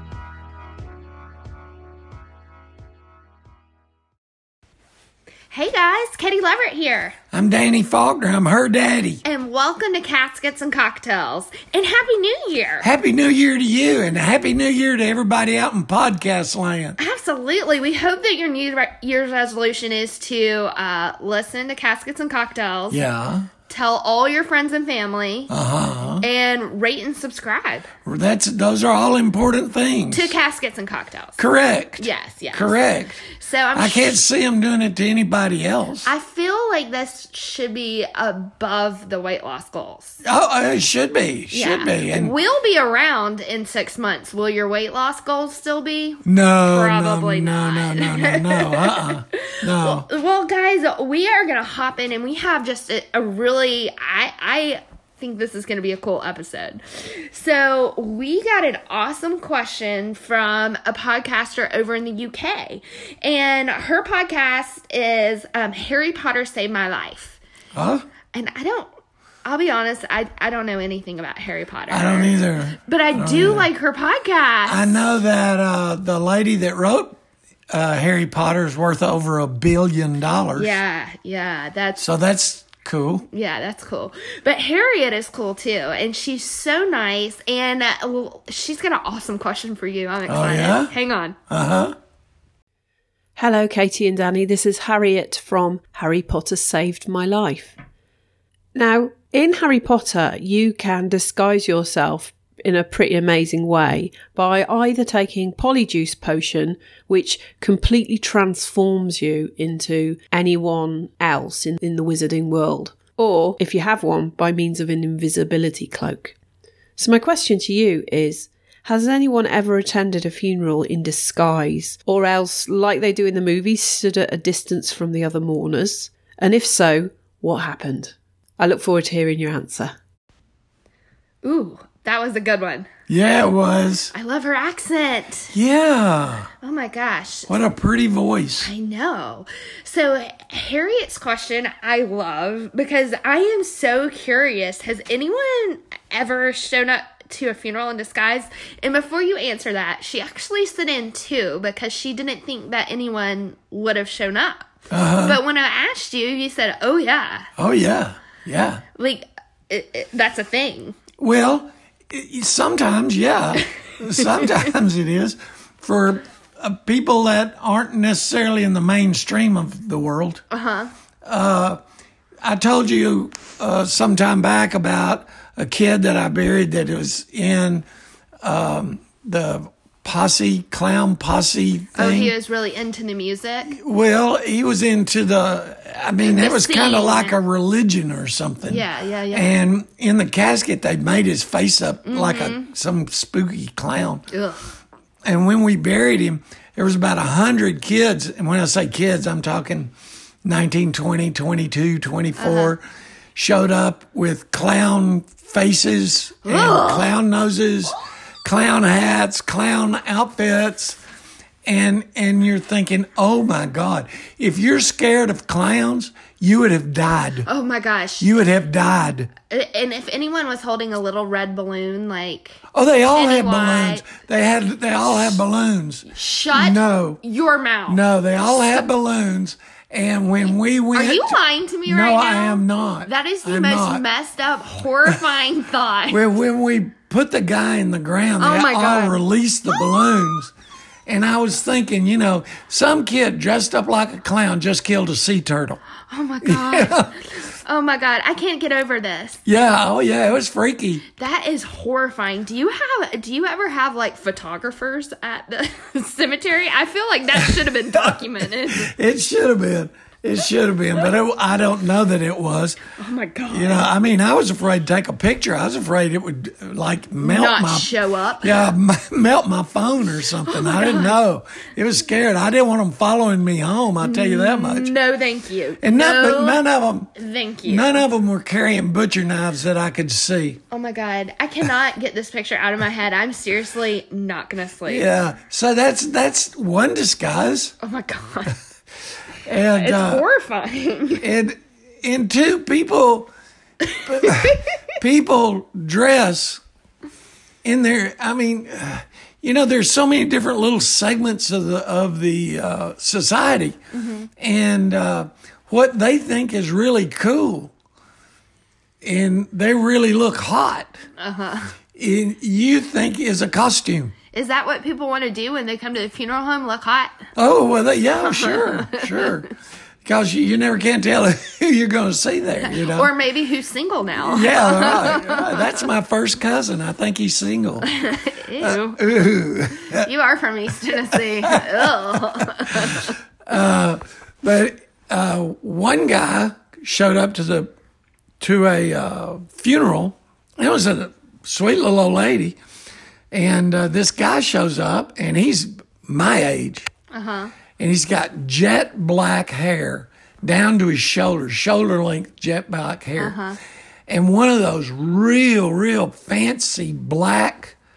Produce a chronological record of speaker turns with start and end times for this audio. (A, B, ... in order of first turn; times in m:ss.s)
0:05.5-0:07.2 A
0:07.3-0:09.2 B
0:09.2-0:12.9 A
0:12.8-0:17.0 B
0:17.0-0:23.0 A
0:22.9-0:23.5 B
0:23.7-0:25.5 A
0:25.5-0:26.3 B
0:26.2-0:27.9 A
0:28.0-0:30.3 B
0:30.1-0:31.4 A
0:31.4-0:33.2 B
0:32.0-0:34.2 A
0:33.8-0:36.1 B
0:36.0-0:40.2 A
0:40.2-0:42.4 B
0:41.5-1:07.4 A
0:46.2-0:50.1 B
1:07.8-1:08.1 B
1:08.3-1:08.9 A
1:09.4-1:15.1 A
1:11.9-1:13.7 B
1:14.7-1:17.2 B
1:17.7-1:20.8 B
1:20.6-1:22.0 A
1:22.0-1:23.3 B
1:23.3-1:31.4 A
1:30.3-1:30.9 B
1:31.5-1:32.0 B
1:33.4-1:37.8 C
1:38.8-1:56.4 C
1:57.0-2:09.9 C
2:11.4-2:12.9 A
2:13.1-2:14.1 B
2:14.1-2:15.5 A
2:15.5-2:16.5 B
2:16.6-2:17.5 A
2:17.5-2:18.7 B
2:18.6-2:34.7 A
2:34.9-2:35.4 B
2:35.2-2:37.5 A
2:37.6-2:38.8 B
2:39.0-2:41.0 A
2:41.2-2:50.4 B
2:50.5-2:50.9 A
2:51.2-2:51.8 B
2:52.4-2:57.9 B
2:58.4-3:02.3 B
3:02.0-3:03.8 A
3:03.7-3:14.2 B
3:06.2-3:07.4 A
3:08.7-3:09.6 A
3:12.0-3:12.7 A
3:14.3-3:14.7 A
3:15.2-3:19.9 B
3:20.4-3:22.8 B
3:22.4-3:22.8 A
3:23.4-3:31.0 B
3:26.4-3:27.1 A
3:31.6-3:37.5 B
3:37.5-3:38.3 A
3:38.2-3:39.3 B
3:39.4-3:42.6 A
3:42.7-3:47.2 B
3:43.1-3:44.0 A
3:46.1-3:48.0 A
3:47.9-3:54.0 B
3:50.9-3:56.2 A
3:56.1-4:00.5 B
3:58.4-3:59.2 A
4:01.1-4:05.8 B
4:06.1-4:09.4 A
4:06.4-4:07.2 B
4:09.5-4:11.0 B
4:11.2-4:18.9 A
4:17.4-4:22.8 B
4:23.0-4:23.9 A
4:23.5-4:34.9 B
4:27.2-4:28.7 A
4:30.5-4:31.2 A
4:34.0-4:36.6 A
4:35.8-4:37.1 B
4:37.2-4:38.0 A
4:37.6-4:40.6 B
4:40.7-4:45.1 A
4:44.9-4:47.8 B
4:47.8-4:48.6 A
4:49.4-4:50.2 B
4:49.8-4:51.2 A
4:51.1-4:53.3 B
4:54.0-4:56.6 B
4:54.2-4:54.6 A
4:57.6-5:03.8 B
5:03.9-5:04.3 A
5:04.4-5:07.7 B
5:09.0-5:11.0 B
5:11.2-5:11.7 A
5:12.0-5:14.2 B
5:14.3-5:17.2 A
5:17.4-5:19.5 B
5:18.2-5:19.3 A
5:20.0-5:23.1 B
5:22.6-5:25.8 A
5:24.2-5:27.9 B
5:27.9-5:29.0 A
5:28.6-5:30.1 B
5:29.9-5:33.2 A
5:31.4-5:37.7 B
5:38.4-5:42.6 B
5:43.3-5:46.9 B
5:47.1-5:47.5 A
5:47.8-5:53.4 B
5:53.2-5:53.6 A
5:54.1-5:57.8 B